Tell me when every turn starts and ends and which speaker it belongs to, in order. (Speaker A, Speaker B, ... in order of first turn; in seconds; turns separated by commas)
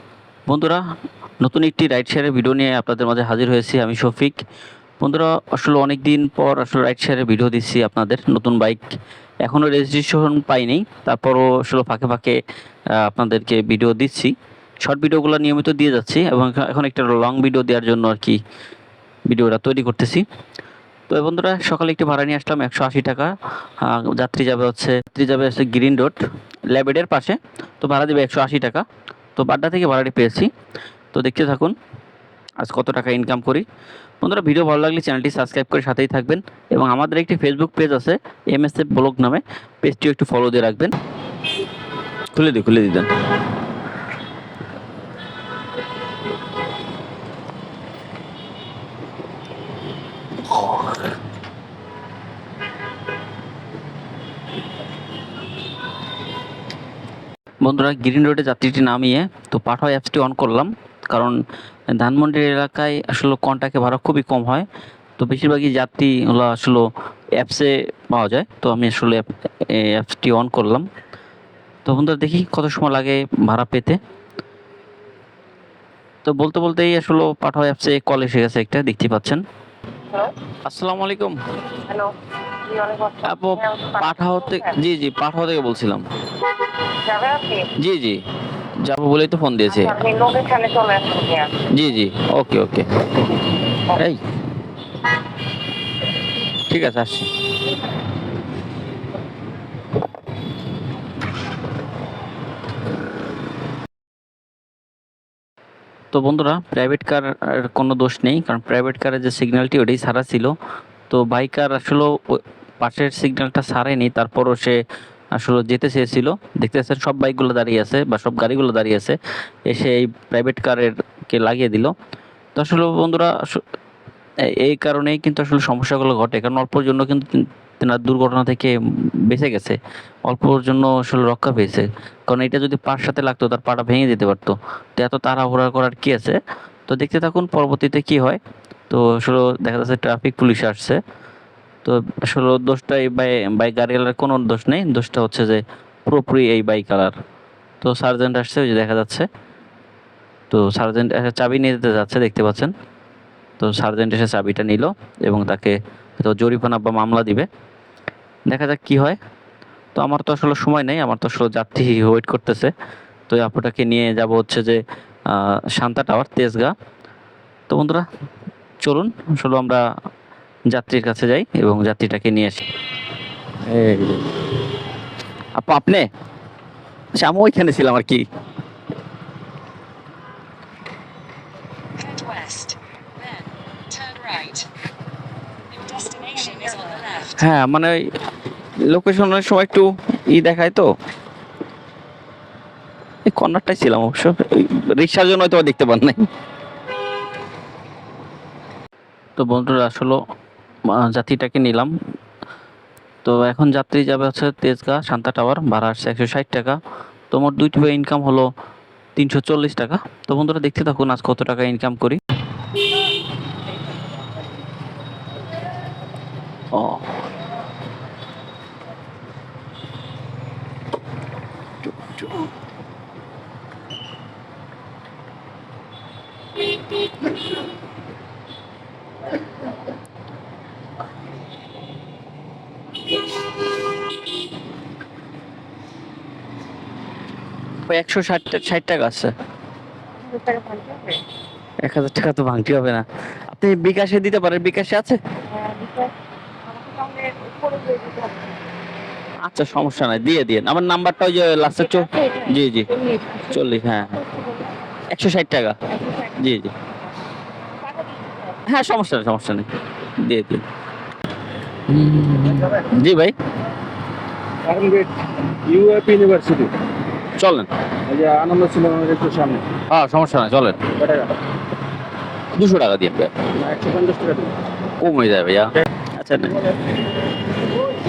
Speaker A: 0.5-0.8, Speaker A: 1.4-4.4, Speaker A: 5.0-8.8, Speaker A: 9.4-12.4, Speaker A: 13.0-14.3, Speaker A: 14.8-18.4, Speaker A: 19.3-20.2, Speaker A: 21.1-26.2, Speaker A: 26.7-28.8, Speaker A: 29.4-30.5, Speaker A: 31.1-31.8, Speaker A: 32.6-33.6, Speaker A: 34.2-40.9, Speaker A: 42.3-43.1, Speaker A: 57.6-61.4, Speaker A: 61.9-64.7, Speaker A: 65.2-70.8, Speaker A: 71.8-74.0, Speaker A: 76.2-79.4, Speaker A: 80.6-81.4, Speaker B: 81.8-84.8, Speaker A: 83.2-86.0, Speaker B: 87.0-87.7, Speaker A: 87.7-88.2, Speaker A: 88.8-90.0, Speaker B: 89.7-91.6, Speaker A: 91.7-93.1, Speaker A: 93.9-94.2, Speaker A: 96.6-97.3, Speaker A: 106.1-110.5, Speaker A: 111.1-114.8, Speaker A: 115.3-121.9, Speaker A: 122.5-123.6, Speaker A: 124.6-128.7, Speaker A: 129.2-141.0, Speaker A: 141.8-147.2, Speaker A: 147.8-149.3, Speaker A: 150.5-152.7, Speaker A: 153.6-157.5, Speaker A: 158.5-159.2, Speaker A: 159.9-162.7, Speaker A: 163.3-166.7, Speaker A: 167.7-168.0, Speaker A: 168.8-169.8, Speaker A: 170.7-172.6, Speaker A: 173.7-174.2, Speaker A: 175.6-176.1, Speaker A: 177.2-178.2, Speaker B: 186.0-186.9, Speaker A: 187.1-188.0, Speaker A: 188.8-190.9, Speaker A: 193.3-196.3, Speaker A: 199.3-200.2, Speaker A: 200.9-201.9, Speaker A: 203.2-206.8, Speaker A: 207.3-208.5, Speaker A: 209.2-212.2, Speaker A: 216.7-217.2, Speaker A: 237.9-239.3, Speaker B: 240.2-241.2, Speaker A: 241.8-245.2, Speaker B: 245.5-246.1, Speaker B: 246.7-248.6, Speaker A: 249.4-254.3, Speaker B: 252.1-253.5, Speaker B: 254.2-254.7, Speaker A: 255.1-256.7, Speaker B: 257.8-258.4, Speaker A: 258.6-260.6, Speaker A: 261.9-263.3, Speaker C: 264.6-266.7, Speaker A: 267.4-267.7, Speaker C: 268.0-269.7, Speaker A: 269.9-270.9, Speaker C: 271.0-271.2, Speaker A: 272.5-273.5, Speaker C: 273.5-274.6, Speaker A: 275.0-276.7